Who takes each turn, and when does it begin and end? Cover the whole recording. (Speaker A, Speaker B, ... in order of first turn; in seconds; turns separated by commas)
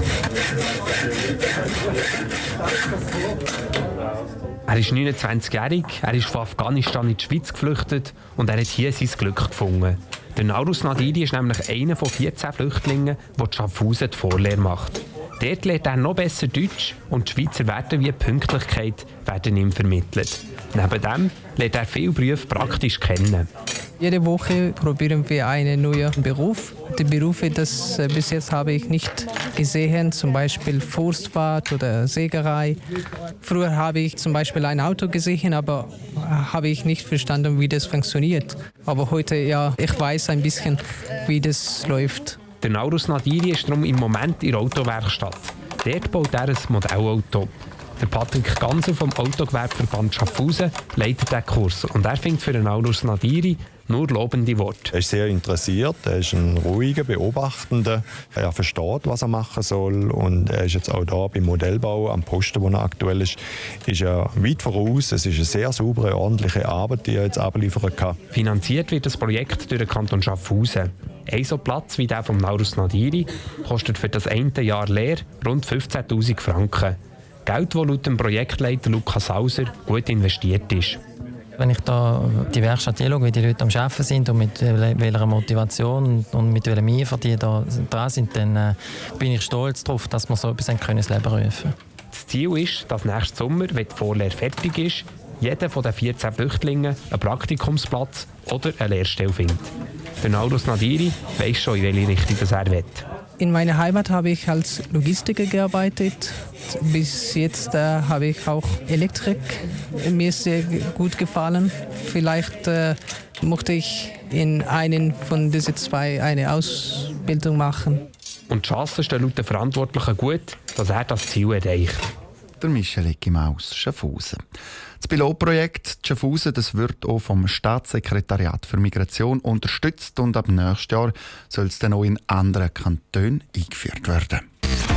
Speaker A: 4.7-23.5, Speaker B: 24.0-32.8, Speaker B: 33.4-42.4, Speaker A: 42.6-54.9, Speaker C: 54.9-68.2, Speaker A: 68.3-81.0, Speaker D: 81.6-91.7, Speaker A: 92.1-99.7, Speaker A: 100.2-103.0, Speaker B: 103.4-118.0, Speaker A: 118.5-122.1, Speaker E: 122.6-124.4, Speaker E: 125.0-134.4